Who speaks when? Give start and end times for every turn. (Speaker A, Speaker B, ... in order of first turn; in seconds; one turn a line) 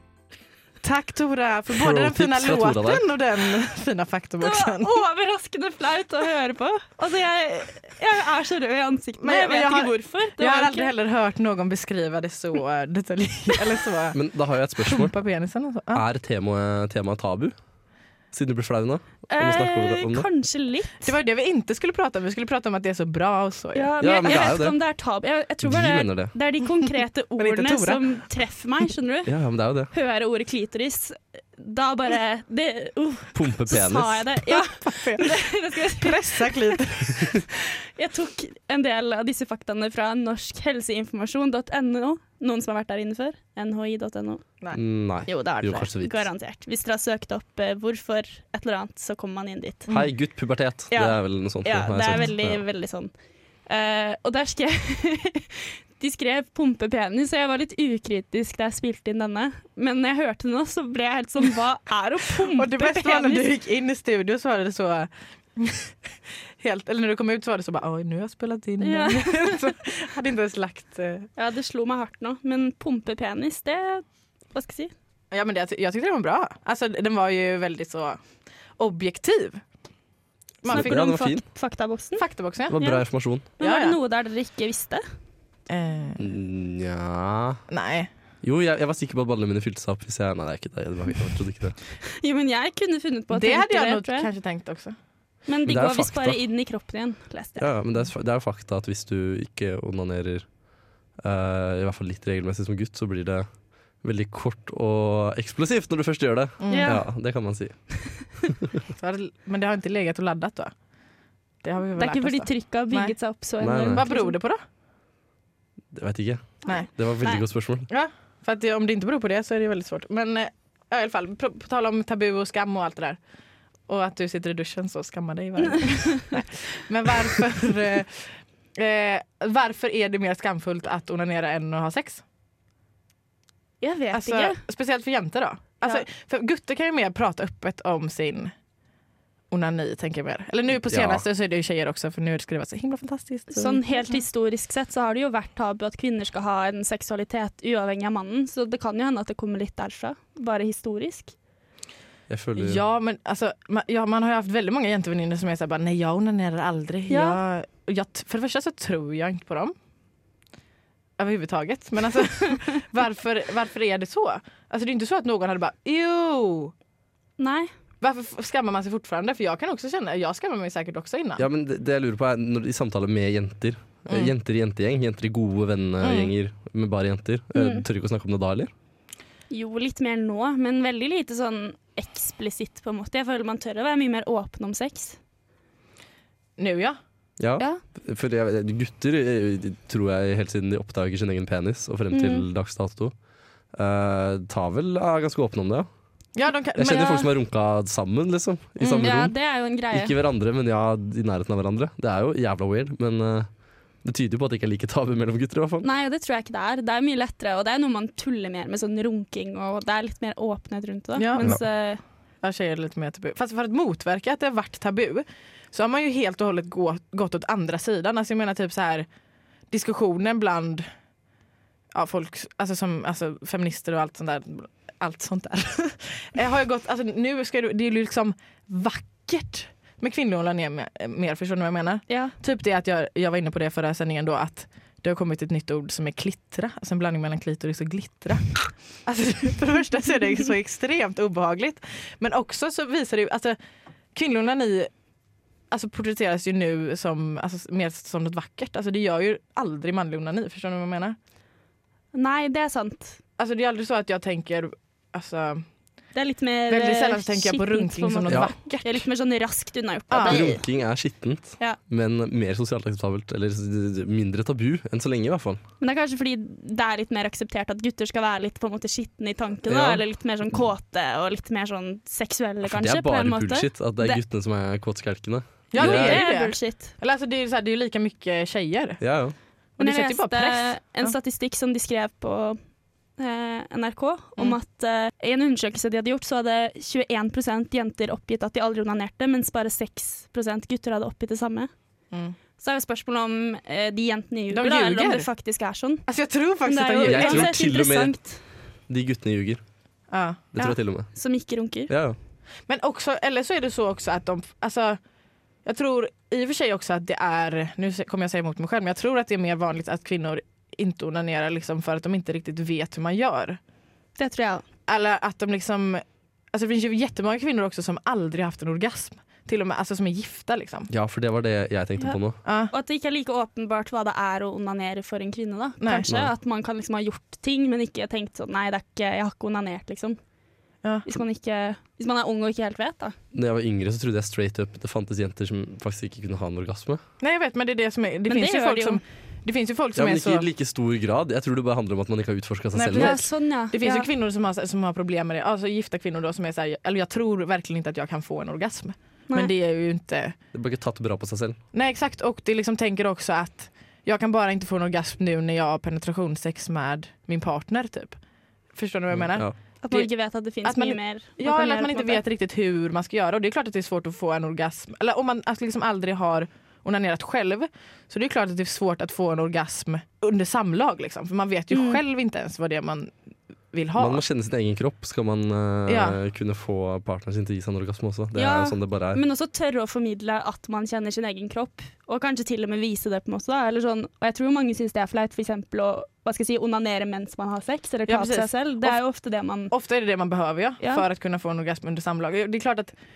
Speaker A: 0.8-5.0
Speaker B: 1.7-3.0
Speaker C: 4.4-10.9
Speaker A: 9.2-14.3
Speaker B: 14.1-15.1
Speaker A: 14.8-16.0
Speaker B: 15.9-17.6
Speaker B: 18.3-20.3
Speaker C: 19.3-21.1
Speaker A: 21.0-23.9
Speaker C: 23.7-29.3
Speaker B: 24.0-24.8
Speaker B: 25.6-26.3
Speaker A: 27.4-28.1
Speaker B: 29.3-29.9
Speaker C: 29.9-36.8
Speaker B: 33.3-34.3
Speaker A: 34.5-37.3
Speaker C: 38.0-44.5
Speaker B: 44.7-46.3
Speaker C: 45.2-49.9
Speaker B: 49.9-52.6
Speaker C: 50.9-53.1
Speaker C: 53.7-63.5
Speaker A: 62.5-65.9
Speaker A: 66.6-71.3
Speaker C: 68.8-69.6
Speaker C: 71.4-74.9
Speaker A: 75.3-78.2
Speaker A: 78.8-79.6
Speaker A: 80.6-81.2
Speaker B: 80.7-81.5
Speaker C: 80.7-85.0
Speaker A: 82.1-82.8
Speaker B: 82.7-83.5
Speaker A: 83.6-84.0
Speaker A: 85.7-86.3
Speaker B: 86.2-87.6
Speaker A: 87.7-88.1
Speaker B: 88.4-91.8
Speaker C: 92.2-94.3
Speaker A: 93.3-95.0
Speaker C: 95.5-97.7
Speaker B: 95.7-96.4
Speaker B: 97.6-100.5
Speaker B: 101.2-103.5
Speaker B: 104.0-108.4
Speaker A: 106.6-107.0
Speaker C: 106.7-107.1
Speaker A: 109.0-110.7
Speaker A: 111.6-113.2
Speaker C: 112.0-114.4
Speaker B: 113.6-114.1
Speaker A: 113.9-114.6
Speaker B: 115.9-117.9
Speaker C: 116.7-117.4
Speaker A: 117.9-123.2
Speaker A: 123.9-132.2
Speaker C: 125.8-126.1
Speaker C: 133.8-134.6
Speaker A: 134.1-138.5
Speaker A: 139.5-144.2
Speaker B: 140.8-141.2
Speaker C: 143.5-151.3
Speaker B: 152.3-152.8
Speaker A: 152.6-159.7
Speaker C: 157.1-157.4
Speaker A: 161.2-166.7
Speaker C: 167.4-167.7
Speaker A: 168.0-171.4
Speaker B: 171.4-178.7
Speaker A: 176.0-176.3
Speaker C: 177.6-177.8
Speaker C: 179.5-185.2
Speaker A: 186.6-187.0
Speaker B: 187.4-193.2
Speaker C: 192.1-192.5
Speaker B: 193.7-195.9
Speaker A: 196.4-197.3
Speaker B: 196.8-205.9
Speaker A: 198.8-199.2
Speaker C: 199.0-200.2
Speaker C: 205.8-212.0
Speaker A: 211.2-211.9
Speaker A: 212.4-219.1
Speaker A: 219.7-220.9
Speaker A: 221.9-243.6
Speaker C: 232.1-232.3
Speaker A: 244.1-244.9
Speaker A: 245.7-251.2
Speaker C: 252.1-253.2
Speaker A: 253.4-255.6
Speaker C: 256.1-260.6
Speaker A: 256.7-259.1
Speaker B: 258.3-258.5
Speaker A: 260.1-260.5
Speaker B: 260.2-265.6
Speaker C: 265.8-274.2
Speaker B: 269.7-270.0
Speaker B: 272.6-276.3
Speaker A: 275.7-279.0
Speaker C: 275.7-276.9
Speaker B: 279.0-279.4
Speaker A: 279.8-281.1
Speaker C: 279.8-282.6
Speaker C: 283.2-291.7
Speaker C: 292.6-296.1
Speaker A: 294.5-295.3
Speaker A: 296.1-297.6
Speaker C: 296.6-298.4
Speaker B: 297.0-299.6
Speaker A: 300.1-300.6
Speaker B: 300.5-301.2
Speaker C: 300.6-301.9
Speaker B: 301.9-302.2
Speaker A: 302.7-305.0
Speaker A: 305.6-313.6
Speaker C: 314.2-314.6
Speaker A: 314.9-320.9
Speaker B: 320.9-322.4
Speaker A: 322.4-322.7
Speaker C: 322.7-330.2
Speaker A: 325.8-326.1
Speaker B: 326.1-326.3
Speaker C: 331.1-333.1
Speaker B: 333.3-337.0
Speaker A: 337.2-340.4
Speaker C: 338.3-339.0
Speaker B: 339.9-343.2
Speaker A: 342.8-350.4
Speaker C: 342.8-344.1
Speaker B: 350.5-351.6
Speaker A: 351.7-358.2
Speaker A: 358.7-360.1
Speaker B: 359.1-359.6
Speaker C: 359.8-362.2
Speaker A: 360.6-373.1
Speaker C: 371.7-372.0
Speaker A: 373.7-374.2
Speaker B: 374.0-379.2
Speaker A: 375.9-376.2
Speaker C: 378.4-389.7
Speaker A: 388.1-389.0
Speaker A: 389.7-392.9